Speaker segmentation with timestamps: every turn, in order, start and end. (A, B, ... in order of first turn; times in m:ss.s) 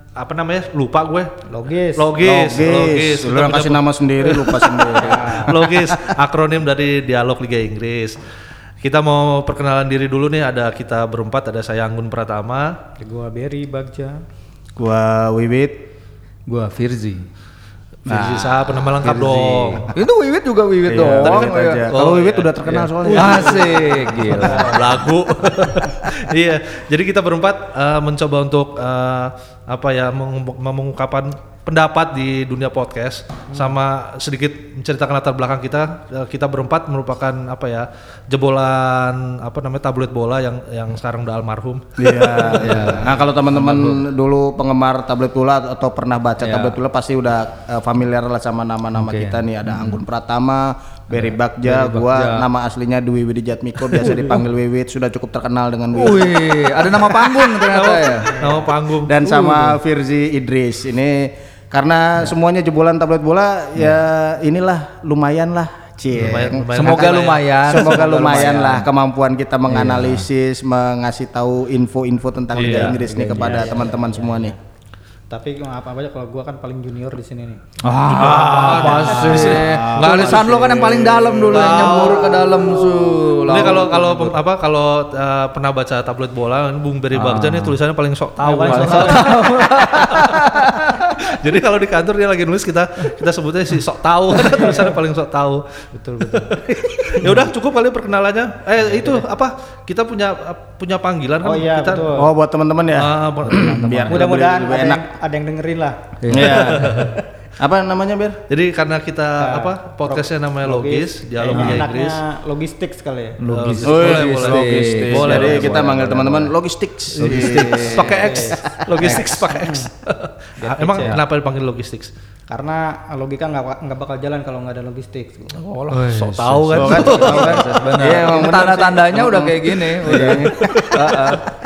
0:00.2-0:01.3 A
0:01.5-0:02.1 B
0:02.0-0:08.2 A
0:02.2-0:06.1 C
0:05.0-0:05.6 B
0:08.8-0:12.7 A
0:13.0-0:14.2 B
0:14.8-0:15.8 C
0:16.5-0:17.3 D
0:18.0-0:18.5 C
0:18.0-0:19.9 A
0:19.0-0:21.9 D
0:20.9-0:24.5 C
0:21.2-0:22.6 A
0:22.7-0:25.0 D
0:23.1-0:25.0 B
0:24.5-0:42.7 A
0:42.0-0:57.0 C
0:42.5-0:44.0 D
0:46.4-0:46.8 D
0:49.0-0:49.9 D
0:51.1-0:52.5 D
0:53.8-0:54.4 D
0:55.9-0:58.3 D
0:57.5-0:59.1 A
0:58.3-0:58.6 B
0:59.0-1:14.5 C
0:59.2-0:59.8 D
1:06.2-1:08.1 A
1:06.2-1:08.9 D
1:09.7-1:10.2 D
1:12.5-1:13.0 A
1:12.6-1:13.7 D
1:13.0-1:14.5 B
1:15.3-1:17.6 B
1:17.8-1:24.4 D
1:18.0-1:35.6 A
1:18.4-1:21.8 C
1:27.1-1:27.8 D
1:28.4-1:29.6 B
1:28.6-1:31.1 D
1:35.9-1:36.8 B
1:36.2-1:42.1 A
1:41.4-1:42.3 B
1:42.1-1:45.0 C
1:42.9-1:43.8 A
1:43.4-1:44.2 D
1:44.1-1:46.0 B
1:46.2-1:47.1 D
1:46.3-1:48.4 C
1:46.4-1:47.2 A
1:48.5-1:52.2 A
1:49.4-1:53.4 B
1:51.5-1:51.8 D
1:53.4-1:56.5 D
1:53.5-1:55.9 A
1:53.8-1:59.1 C
1:57.2-1:58.4 D
1:57.2-2:02.1 A
1:58.0-1:59.9 B
1:59.0-1:59.4 D
2:00.6-2:01.2 B
2:02.5-2:05.6 B
2:05.6-2:07.8 A
2:05.9-2:11.4 D
2:06.7-2:10.6 C
2:10.1-2:11.4 A